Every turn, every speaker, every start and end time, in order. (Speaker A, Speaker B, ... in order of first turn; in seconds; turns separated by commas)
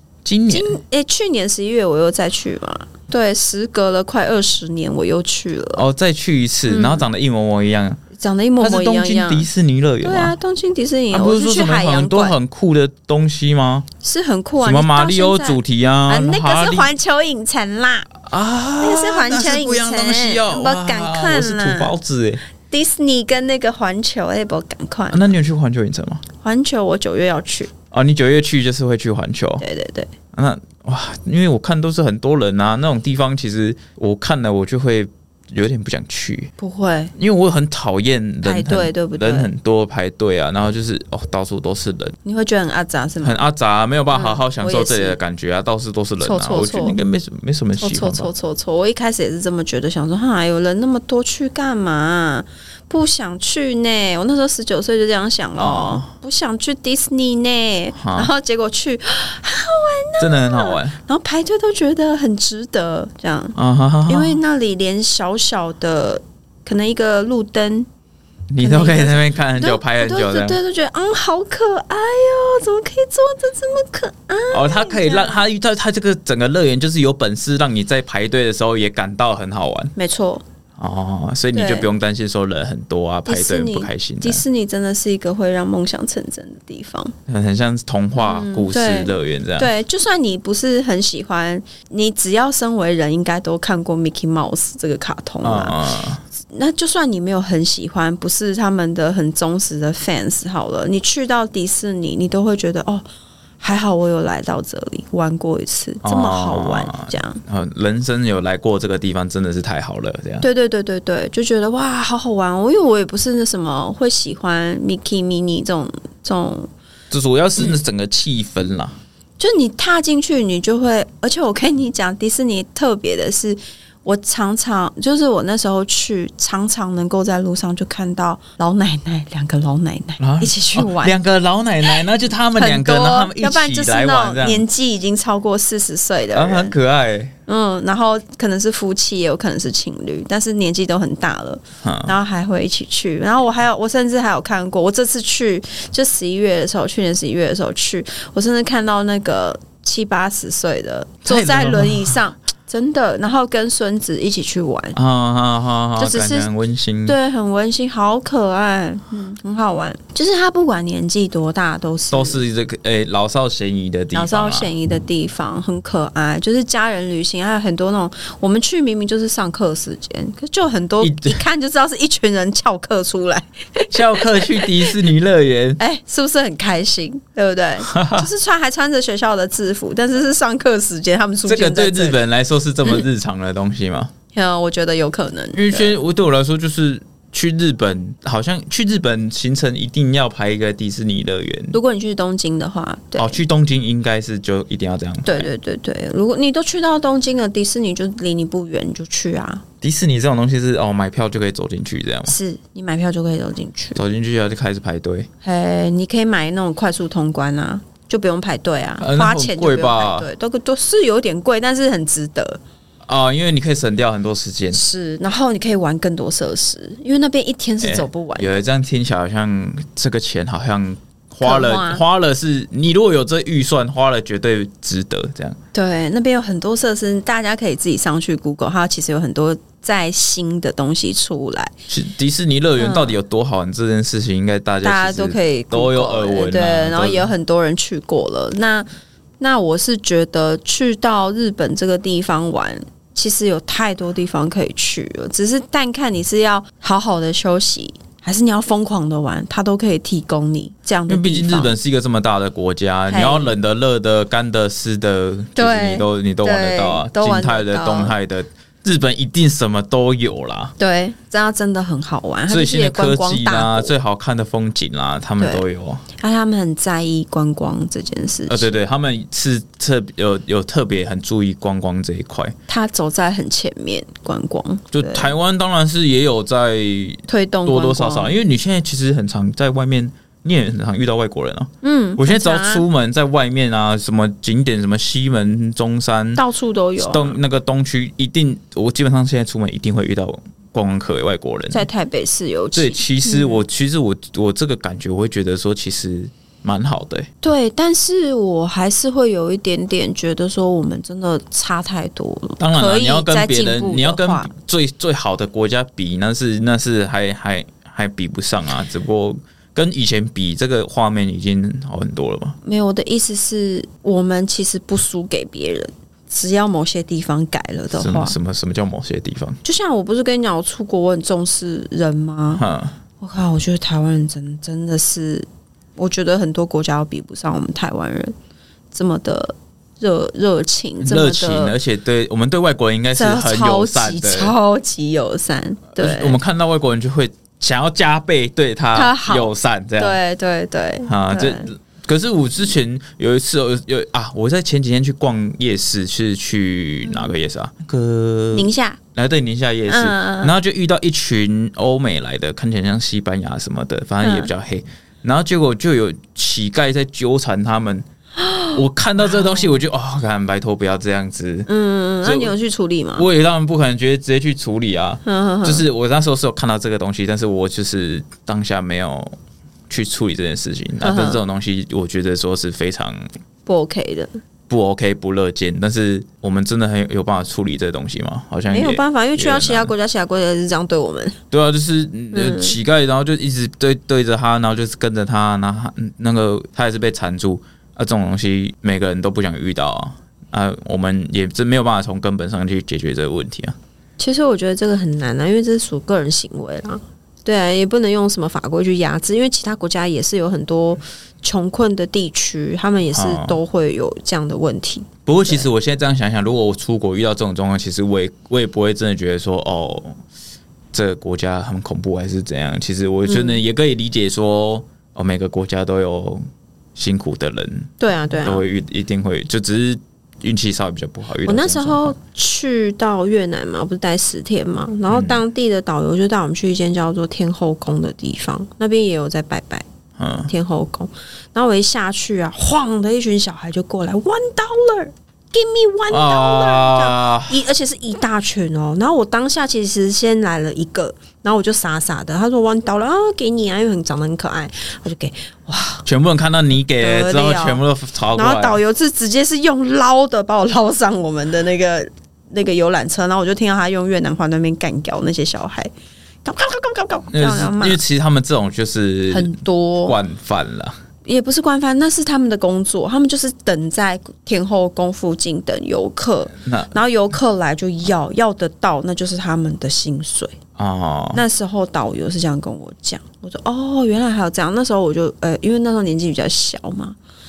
Speaker A: 0.2-0.8, Speaker B: 0.5-5.8, Speaker A: 5.8-8.0, Speaker B: 6.7-7.1, Speaker B: 8.1-9.5, Speaker A: 8.6-10.3, Speaker B: 10.0-12.3, Speaker A: 11.1-13.9, Speaker B: 14.0-18.1, Speaker A: 14.6-16.9, Speaker A: 18.2-22.4, Speaker B: 18.8-21.9, Speaker B: 22.7-25.2, Speaker A: 25.1-26.2, Speaker B: 26.4-27.7, Speaker A: 27.9-29.6, Speaker B: 29.6-30.1, Speaker A: 30.3-36.5, Speaker B: 36.6-37.1, Speaker A: 37.1-42.1, Speaker B: 38.4-39.5, Speaker B: 42.2-43.4, Speaker A: 43.2-48.3, Speaker B: 44.1-45.2, Speaker B: 46.2-47.0, Speaker B: 47.8-67.9, Speaker A: 55.6-56.1, Speaker A: 58.0-58.3, Speaker A: 60.2-61.0, Speaker A: 63.5-64.4, Speaker A: 68.5-70.6, Speaker B: 68.6-75.4, Speaker A: 74.5-79.9, Speaker B: 80.0-80.4, Speaker A: 80.8-84.4, Speaker B: 81.5-81.9, Speaker B: 83.3-87.1, Speaker A: 87.3-89.7, Speaker B: 88.2-95.8, Speaker A: 95.4-96.2, Speaker B: 96.4-103.0, Speaker B: 103.6-107.4, Speaker A: 106.0-110.5, Speaker B: 110.4-116.7, Speaker A: 117.1-119.0, Speaker B: 119.4-131.2, Speaker A: 130.2-134.6, Speaker B: 132.5-136.7, Speaker A: 136.3-137.3, Speaker B: 137.5-155.0, Speaker A: 141.8-142.1, Speaker A: 151.2-152.2, Speaker A: 154.9-157.2, Speaker B: 156.0-156.5, Speaker B: 157.0-162.4, Speaker A: 162.1-164.7, Speaker B: 164.1-174.9, Speaker A: 171.0-171.4, Speaker A: 173.9-175.8, Speaker B: 175.8-182.2, Speaker A: 177.9-178.3, Speaker A: 181.4-184.1, Speaker B: 184.3-186.0, Speaker A: 185.5-191.7, Speaker B: 191.7-193.4, Speaker A: 193.2-195.5, Speaker B: 195.2-199.6, Speaker A: 199.8-202.3, Speaker B: 202.2-204.0, Speaker A: 203.9-205.3, Speaker B: 205.4-212.6, Speaker A: 209.0-210.3, Speaker A: 213.1-214.8, Speaker B: 214.7-218.6, Speaker A: 217.8-225.6, Speaker B: 221.4-222.0, Speaker B: 225.7-231.7, Speaker A: 231.9-237.3, Speaker B: 232.8-233.2, Speaker B: 234.8-238.9, Speaker B: 239.4-251.7, Speaker A: 251.1-260.7, Speaker B: 253.1-253.5, Speaker B: 255.6-258.1, Speaker B: 260.8-263.9, Speaker A: 262.5-266.1, Speaker B: 265.4-265.6, Speaker B: 266.2-268.7, Speaker A: 268.5-272.6, Speaker B: 272.7-275.3, Speaker A: 274.9-286.4, Speaker B: 277.3-278.4, Speaker B: 281.8-282.8, Speaker B: 286.3-287.4, Speaker A: 287.0-291.9, Speaker B: 291.7-293.6, Speaker A: 292.7-297.3, Speaker B: 297.4-304.5, Speaker A: 302.6-312.6, Speaker B: 312.6-318.4, Speaker A: 317.9-319.6, Speaker B: 319.6-322.6, Speaker A: 322.6-322.9, Speaker B: 323.2-325.4, Speaker B: 326.0-328.3, Speaker B: 328.9-331.7, Speaker A: 331.0-334.5, Speaker B: 333.1-336.4, Speaker A: 335.9-340.2, Speaker B: 338.9-341.7, Speaker A: 341.1-358.1, Speaker B: 347.0-347.3, Speaker B: 348.5-349.0, Speaker B: 349.9-350.5, Speaker B: 354.2-354.5, Speaker B: 358.4-359.7, Speaker A: 358.7-361.7, Speaker B: 361.7-363.2, Speaker A: 362.2-362.5, Speaker A: 363.1-369.4, Speaker B: 365.2-365.8, Speaker A: 369.9-373.2, Speaker B: 371.0-371.4, Speaker B: 373.6-374.4, Speaker A: 374.7-379.9, Speaker B: 378.7-381.4, Speaker A: 381.5-393.8, Speaker B: 382.3-382.8, Speaker B: 394.2-405.7, Speaker A: 403.1-403.6, Speaker A: 405.2-410.2, Speaker A: 410.9-416.4, Speaker B: 413.2-413.6, Speaker A: 416.9-422.2, Speaker B: 418.0-418.6, Speaker B: 421.4-429.8, Speaker A: 425.1-425.4, Speaker A: 430.2-430.5, Speaker B: 430.5-446.0, Speaker A: 436.1-437.6, Speaker A: 446.0-448.8, Speaker B: 447.0-447.8, Speaker B: 448.3-455.9, Speaker B: 456.4-458.0, Speaker A: 457.3-460.9, Speaker B: 459.3-460.2, Speaker B: 461.2-470.5, Speaker A: 466.6-466.9, Speaker A: 470.8-471.4, Speaker B: 471.3-477.2